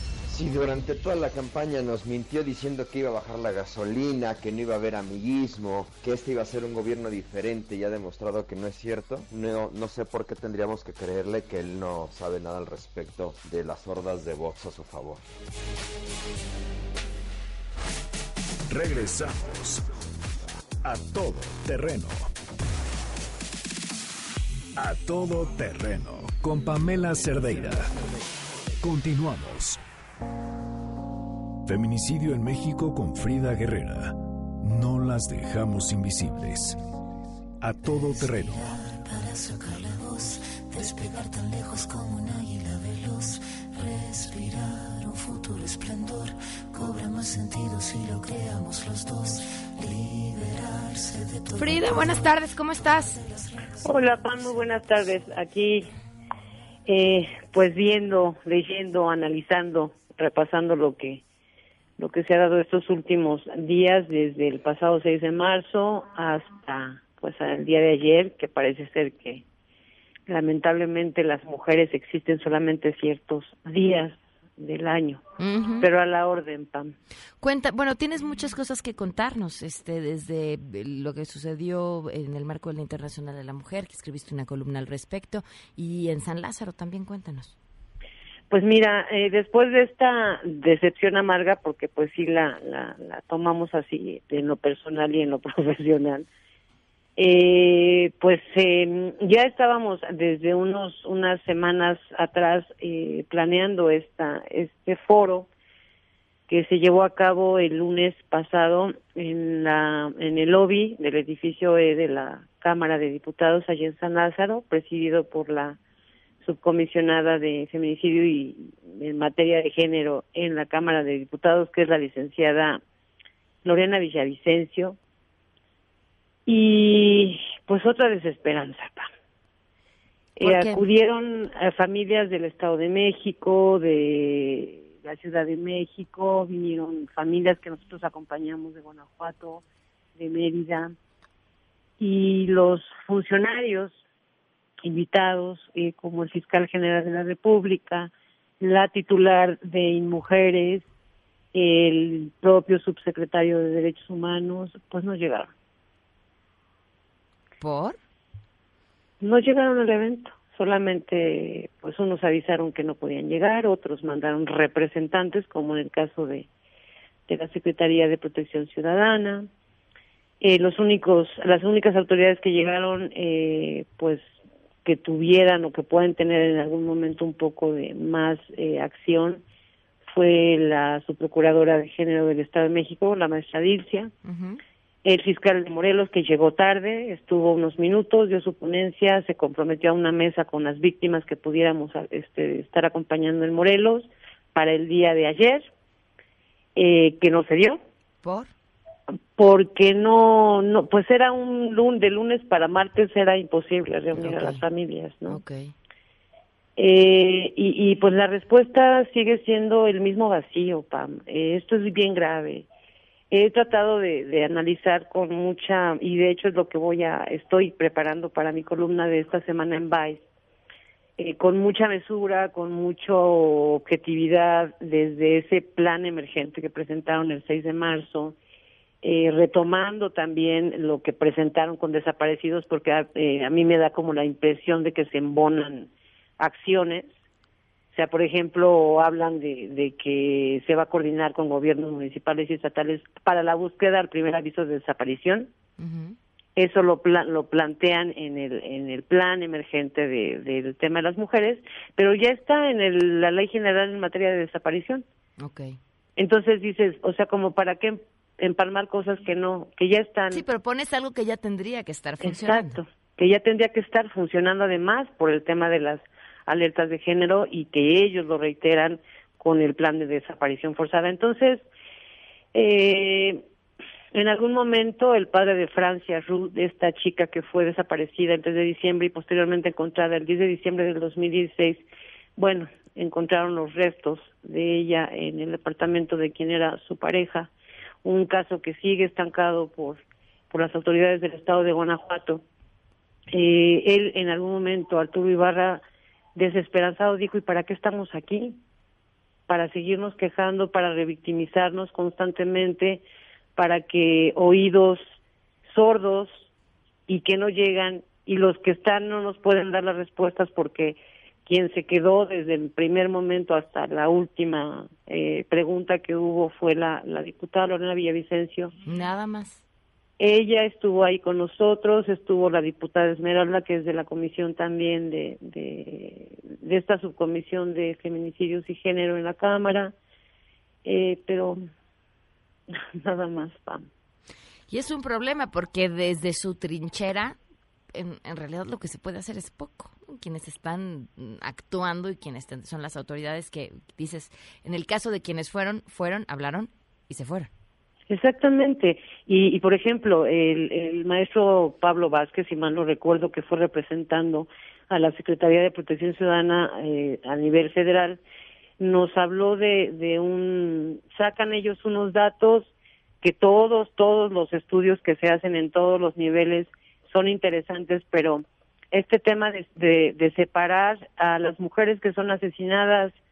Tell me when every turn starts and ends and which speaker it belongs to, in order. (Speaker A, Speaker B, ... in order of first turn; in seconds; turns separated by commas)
Speaker A: 0.3-15.2, Speaker B: 18.7-19.9, Speaker B: 20.8-22.3, Speaker B: 24.8-27.9, Speaker B: 28.8-29.8, Speaker B: 31.6-36.8, Speaker B: 37.6-38.8, Speaker C: 38.3-54.6, Speaker D: 51.6-53.2, Speaker E: 53.8-55.9, Speaker E: 56.9-61.2, Speaker E: 62.0-69.4, Speaker E: 70.3-75.2, Speaker D: 75.4-75.9, Speaker E: 75.8-77.0, Speaker D: 77.4-87.5, Speaker E: 88.5-96.3, Speaker E: 97.2-105.5, Speaker E: 106.5-115.8, Speaker E: 116.4-122.8, Speaker E: 123.6-125.0, Speaker E: 126.5-129.1, Speaker E: 130.4-139.6, Speaker D: 130.4-130.8, Speaker E: 140.2-140.9, Speaker E: 142.0-144.0, Speaker E: 144.8-150.8, Speaker E: 151.5-155.5, Speaker D: 157.6-158.0, Speaker E: 159.2-166.5, Speaker E: 167.3-169.5, Speaker E: 170.4-174.3, Speaker E: 174.8-179.4, Speaker E: 180.1-184.1, Speaker D: 184.2-184.6, Speaker E: 185.1-195.7, Speaker E: 196.8-197.8, Speaker D: 198.2-198.5, Speaker E: 199.4-205.4, Speaker D: 204.2-204.6, Speaker D: 205.3-205.7, Speaker E: 206.8-212.7, Speaker E: 213.3-220.2, Speaker E: 221.2-228.4, Speaker E: 229.0-237.1, Speaker E: 237.9-245.5, Speaker D: 245.8-246.2, Speaker E: 246.6-255.0, Speaker D: 255.4-255.8, Speaker E: 256.2-260.4, Speaker D: 260.3-262.8, Speaker E: 262.2-271.6, Speaker E: 272.5-273.4, Speaker E: 274.1-281.8, Speaker E: 282.4-287.5, Speaker E: 288.0-292.4, Speaker E: 293.3-295.8, Speaker E: 296.4-298.6, Speaker E: 299.5-303.0, Speaker E: 303.6-305.0, Speaker E: 305.7-306.5, Speaker E: 307.1-318.7, Speaker D: 318.9-319.6, Speaker E: 320.2-329.9, Speaker E: 330.9-331.6, Speaker E: 332.7-333.9, Speaker D: 334.7-337.4, Speaker D: 337.9-347.5, Speaker E: 348.1-358.2, Speaker E: 358.8-373.2